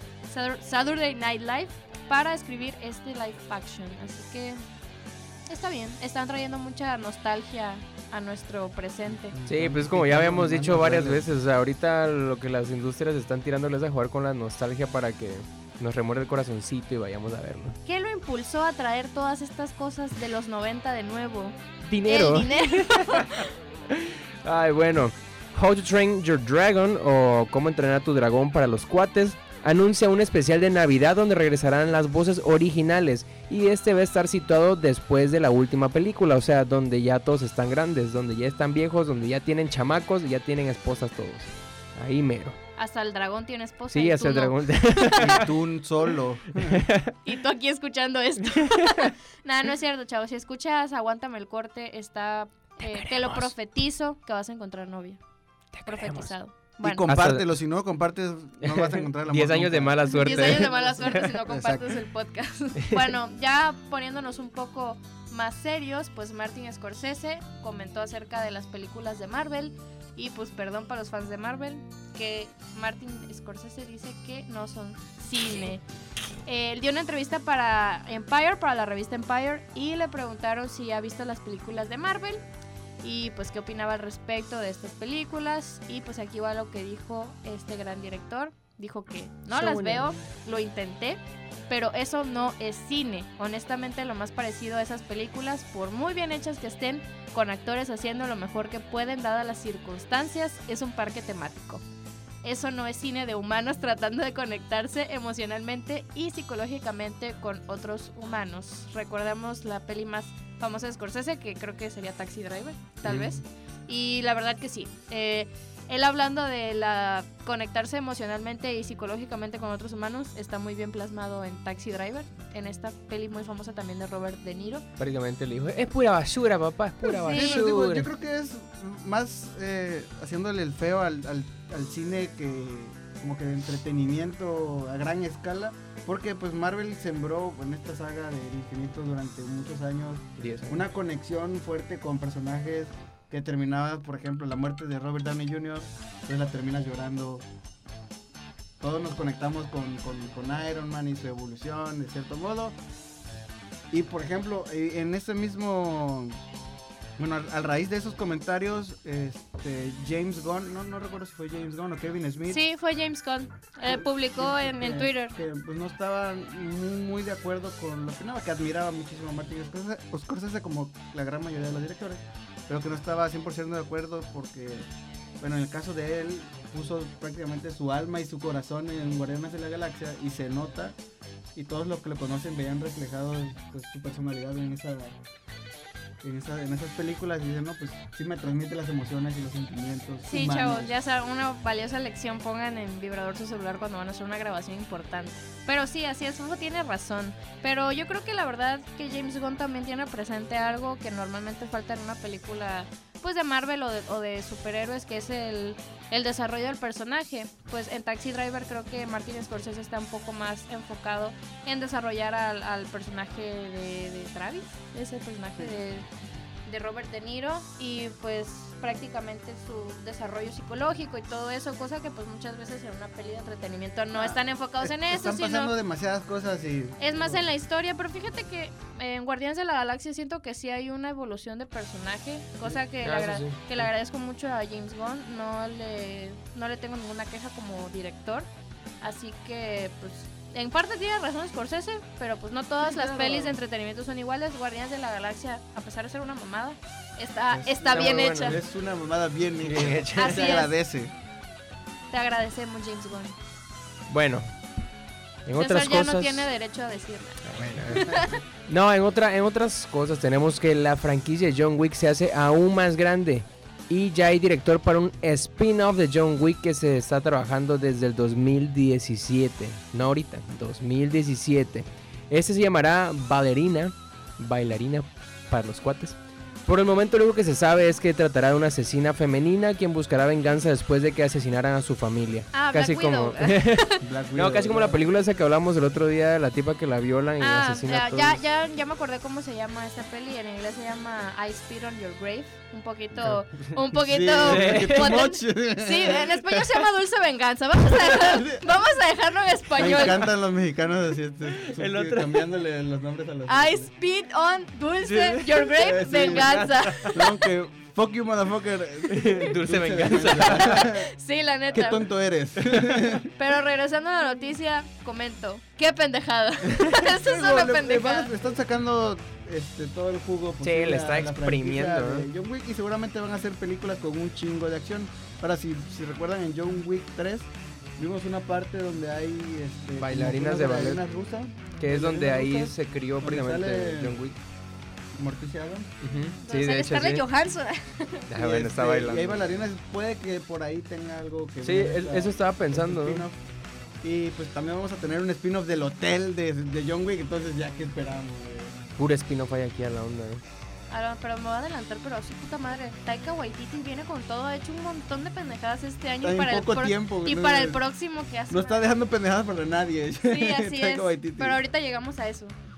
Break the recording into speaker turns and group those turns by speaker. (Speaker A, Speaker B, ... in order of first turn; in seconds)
Speaker A: 0.2-4.6, 5.5-9.3, 17.9-23.5, 42.8-45.4, 47.2-55.2, 55.8-57.1, 60.1-75.8, 76.5-82.4, 83.0-101.8, 102.4-124.8, 127.0-127.6, 162.5-165.3, 190.3-216.1, 216.7-225.7, 227.0-238.5, 239.0-248.6, 250.1-250.7, 252.1-253.3, 255.6-258.4, 282.5-284.0, 287.4-300.3, 303.5-307.3, 310.5-312.0, 313.3-318.3, 336.4-338.3, 350.9-358.8, 360.2-362.5
Speaker B: 9.1-11.3, 45.2-46.9, 56.8-62.0, 127.2-147.4, 148.8-152.8, 153.9-156.4, 157.2-162.6, 163.8-181.0, 181.5-185.2, 186.2-190.9, 224.1-227.4, 242.8-243.6, 247.5-251.1, 257.6-258.3, 284.0-285.0, 293.9-296.5, 297.9-298.6, 299.7-303.9, 305.8-311.1, 311.7-313.3, 316.8-334.2, 335.1-335.9, 338.3-343.4, 344.0-348.8, 356.2-357.8, 358.5-361.6
Speaker C: 9.4-17.8, 21.8-42.6, 43.9-45.5, 46.6-47.1, 48.7-49.1, 52.8-53.5, 55.7-56.3, 57.0-57.5, 58.6-61.3, 62.8-63.1, 89.5-90.2, 113.0-113.4, 125.0-128.1, 140.4-140.8, 233.0-233.6, 247.9-248.6, 249.6-250.5, 254.1-254.5, 255.4-256.5, 257.4-258.1, 258.7-288.4, 294.4-295.2, 301.5-302.4, 305.0-307.2, 309.1-310.9, 312.6-313.2, 320.6-322.3, 330.0-331.0, 331.8-334.4, 336.0-337.2, 338.3-339.6, 341.6-343.2, 349.0-350.4